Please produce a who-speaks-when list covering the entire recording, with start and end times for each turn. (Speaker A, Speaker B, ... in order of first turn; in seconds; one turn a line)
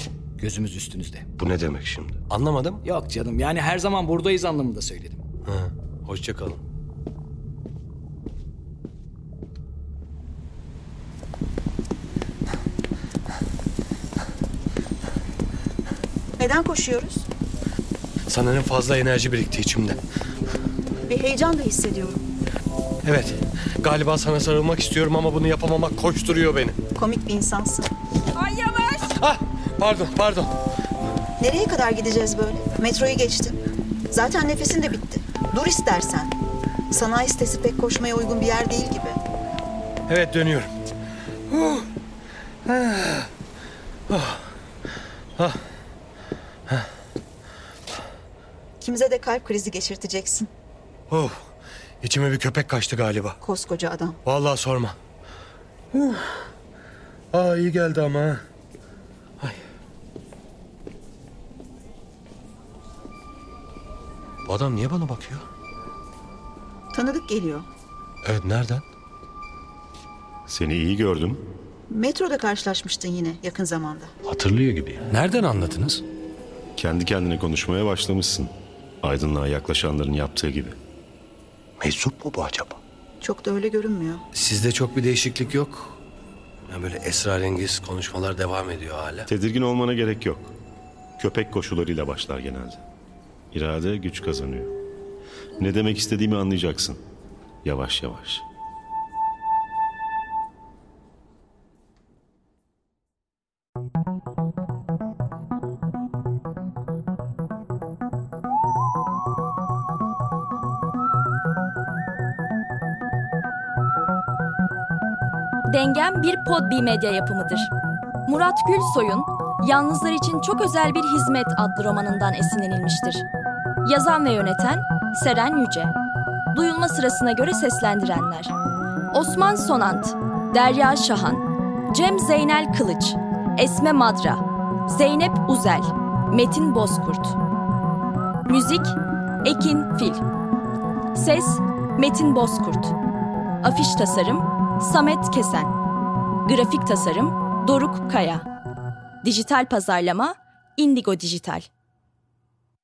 Speaker A: 0.4-1.3
Speaker B: 1.4-2.8
Speaker A: 2.8-5.2
Speaker B: 5.4-6.6
Speaker C: 16.4-17.3
Speaker B: 18.3-20.0
Speaker C: 21.1-22.2
Speaker B: 23.0-26.8
Speaker C: 26.9-27.9
Speaker B: 28.4-30.5
Speaker C: 31.4-36.4
Speaker C: 36.9-39.2
Speaker B: 40.1-40.7
Speaker B: 41.5-41.9
Speaker B: 42.6-43.3
Speaker B: 44.1-44.5
Speaker C: 48.8-50.5
Speaker B: 52.0-53.4
Speaker C: 53.4-54.2
Speaker B: 54.2-54.9
Speaker B: 55.9-56.4
Speaker B: 57.3-58.4
Speaker B: 64.4-65.4
Speaker C: 66.9-67.7
Speaker B: 68.2-68.8
Speaker D: 70.5-71.4
Speaker C: 71.9-74.1
Speaker B: 74.2-76.0
Speaker D: 76.8-80.8
Speaker B: 81.8-82.8
Speaker C: 83.2-84.2
Speaker B: 84.3-86.0
Speaker B: 86.7-89.3
Speaker D: 89.3-90.5
Speaker D: 91.2-92.8
Speaker D: 93.5-94.7
Speaker D: 95.6-97.0
Speaker D: 97.6-98.4
Speaker E: 115.7-117.7
Speaker E: 118.2-123.2
Speaker E: 123.8-125.9
Speaker E: 126.5-128.5
Speaker E: 129.1-137.4
Speaker E: 138.5-140.2
Speaker E: 141.1-142.9
Speaker E: 143.6-145.7
Speaker E: 146.4-148.5
Speaker E: 149.2-151.7